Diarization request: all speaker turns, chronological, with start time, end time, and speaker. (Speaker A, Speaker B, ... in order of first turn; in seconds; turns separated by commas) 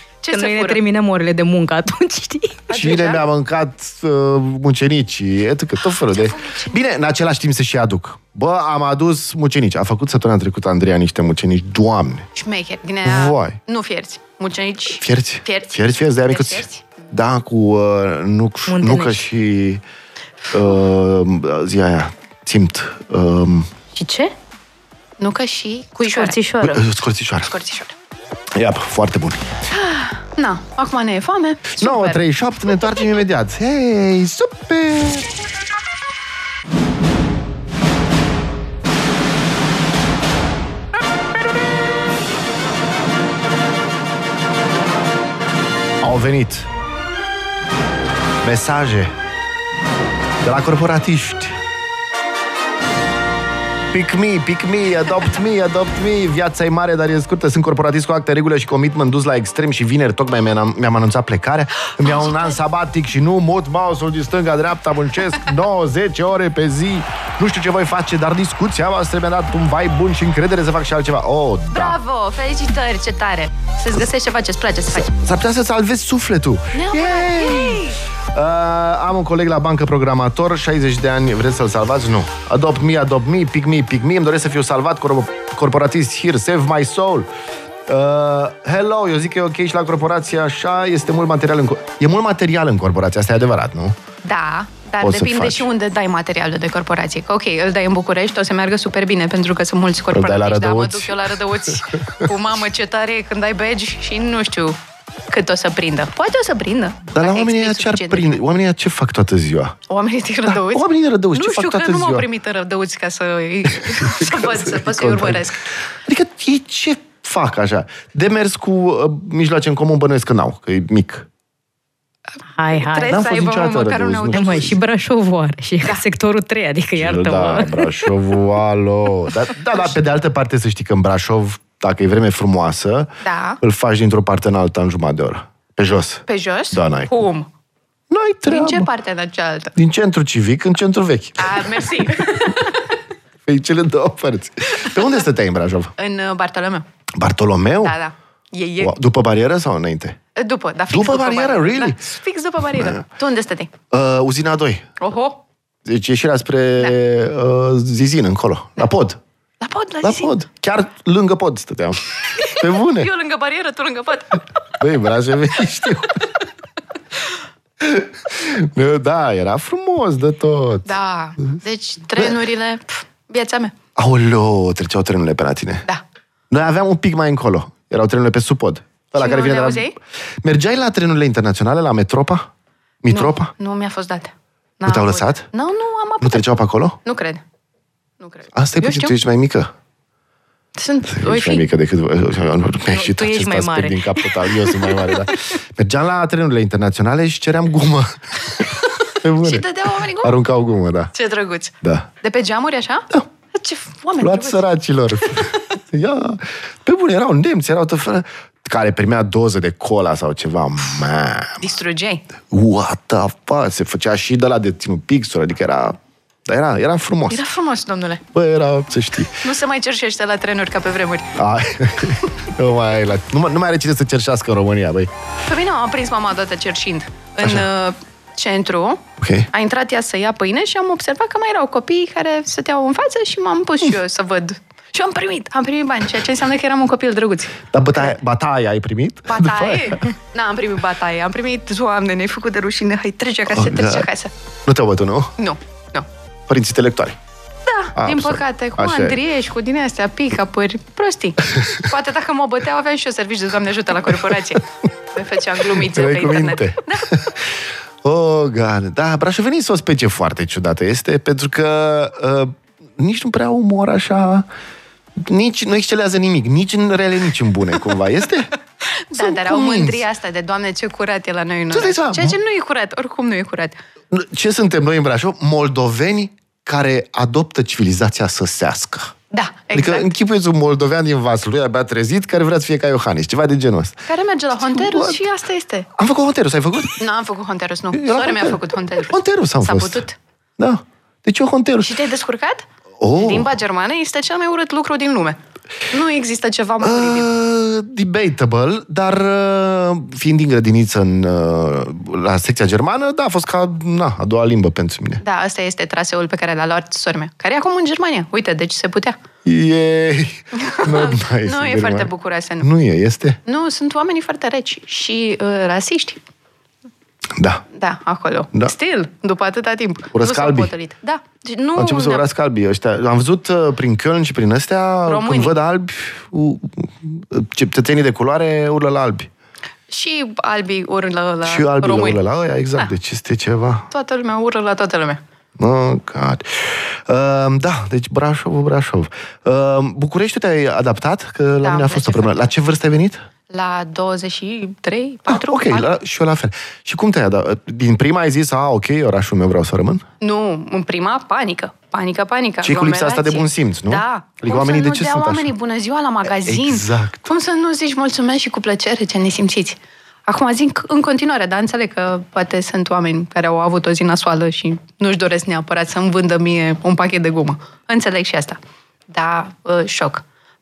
Speaker A: 0.2-0.8, Speaker B: 0.3-2.6, Speaker A: 2.7-3.2, Speaker C: 2.7-12.3, Speaker A: 6.1-6.8, Speaker A: 12.3-16.9, Speaker C: 13.0-13.6, Speaker C: 14.9-19.8, Speaker B: 18.7-19.2, Speaker C: 20.5-23.7, Speaker B: 23.9-24.3, Speaker A: 25.2-26.4, Speaker B: 26.0-26.9, Speaker C: 26.6-27.5, Speaker A: 27.4-27.9, Speaker C: 28.5-29.5, Speaker A: 29.7-32.2, Speaker C: 31.8-35.3, Speaker C: 46.0-46.7, Speaker C: 48.4-49.1, Speaker C: 50.4-51.6, Speaker C: 53.9-72.0, Speaker A: 62.0-62.5, Speaker A: 71.7-75.1, Speaker C: 74.9-87.3, Speaker A: 76.7-78.0, Speaker C: 87.9-94.0, Speaker A: 94.2-104.8, Speaker C: 95.0-95.7, Speaker C: 100.1-101.3, Speaker A: 105.3-108.4, Speaker C: 107.1-109.8, Speaker A: 109.9-115.6, Speaker C: 110.5-112.3, Speaker C: 113.8-115.5, Speaker C: 116.0-121.3, Speaker B: 122.6-123.2, Speaker A: 122.7-124.7, Speaker C: 123.1-124.8, Speaker B: 124.3-128.1, Speaker C: 127.0-133.1, Speaker A: 133.2-133.6, Speaker C: 133.6-137.2, Speaker A: 136.3-137.5, Speaker C: 138.1-138.9, Speaker A: 138.5-139.7, Speaker C: 139.8-142.3, Speaker A: 141.4-142.8, Speaker C: 143.4-145.9, Speaker A: 146.0-146.8, Speaker C: 147.2-147.9, Speaker A: 147.8-148.9, Speaker C: 148.8-150.2, Speaker A: 150.3-153.7, Speaker C: 150.9-152.0, Speaker C: 152.7-153.0, Speaker C: 153.9-154.9, Speaker A: 155.0-155.4, Speaker C: 155.8-159.2, Speaker A: 159.6-160.3, Speaker C: 160.0-163.1, Speaker A: 162.4-164.4, Speaker C: 164.8-166.2, Speaker C: 167.8-170.9, Speaker A: 170.8-173.8, Speaker C: 173.9-175.8, Speaker C: 176.5-179.9, Speaker A: 179.2-179.9, Speaker C: 180.4-182.5, Speaker C: 183.0-183.5, Speaker A: 183.1-187.4, Speaker C: 184.8-185.5, Speaker C: 186.2-187.0, Speaker A: 188.2-189.2, Speaker C: 188.5-189.7, Speaker A: 190.8-191.7, Speaker C: 191.0-199.7, Speaker B: 192.9-195.2, Speaker A: 199.4-200.4, Speaker C: 200.2-201.1, Speaker A: 201.1-204.6, Speaker C: 201.8-202.1, Speaker C: 204.2-211.6, Speaker A: 211.6-212.2, Speaker C: 212.5-217.4, Speaker A: 217.3-218.2, Speaker C: 218.3-219.4, Speaker A: 219.4-221.3, Speaker C: 221.3-225.1, Speaker A: 225.4-238.2, Speaker C: 229.2-229.5, Speaker C: 237.7-240.0, Speaker A: 239.3-244.3, Speaker C: 243.5-244.1, Speaker C: 244.7-245.3, Speaker A: 245.4-246.1, Speaker C: 246.5-247.2, Speaker A: 247.7-257.2, Speaker C: 247.9-249.2, Speaker C: 255.7-264.5, Speaker C: 265.2-268.5, Speaker A: 268.9-273.8, Speaker C: 269.1-270.0, Speaker C: 271.7-272.4, Speaker C: 274.1-279.1, Speaker A: 279.3-280.1, Speaker C: 279.7-284.0, Speaker A: 284.1-285.9, Speaker C: 284.7-285.2, Speaker C: 286.0-287.0, Speaker A: 287.0-290.1, Speaker C: 287.9-290.0, Speaker C: 290.6-291.9, Speaker A: 291.8-295.4, Speaker C: 293.0-293.5, Speaker A: 295.9-297.3, Speaker C: 296.8-305.2, Speaker A: 305.2-309.2, Speaker C: 309.4-313.4, Speaker A: 310.5-312.7, Speaker A: 313.4-316.2, Speaker C: 317.3-317.6, Speaker A: 317.7-322.2, Speaker C: 320.1-320.7, Speaker C: 321.8-329.3, Speaker A: 325.0-325.5, Speaker A: 329.9-332.2, Speaker C: 331.4-333.9, Speaker A: 333.9-335.2, Speaker C: 335.6-343.2, Speaker A: 341.6-342.4, Speaker A: 343.5-345.9, Speaker C: 345.3-350.0, Speaker A: 350.2-368.6, Speaker C: 352.6-355.5, Speaker C: 356.4-357.3, Speaker A: 369.1-370.2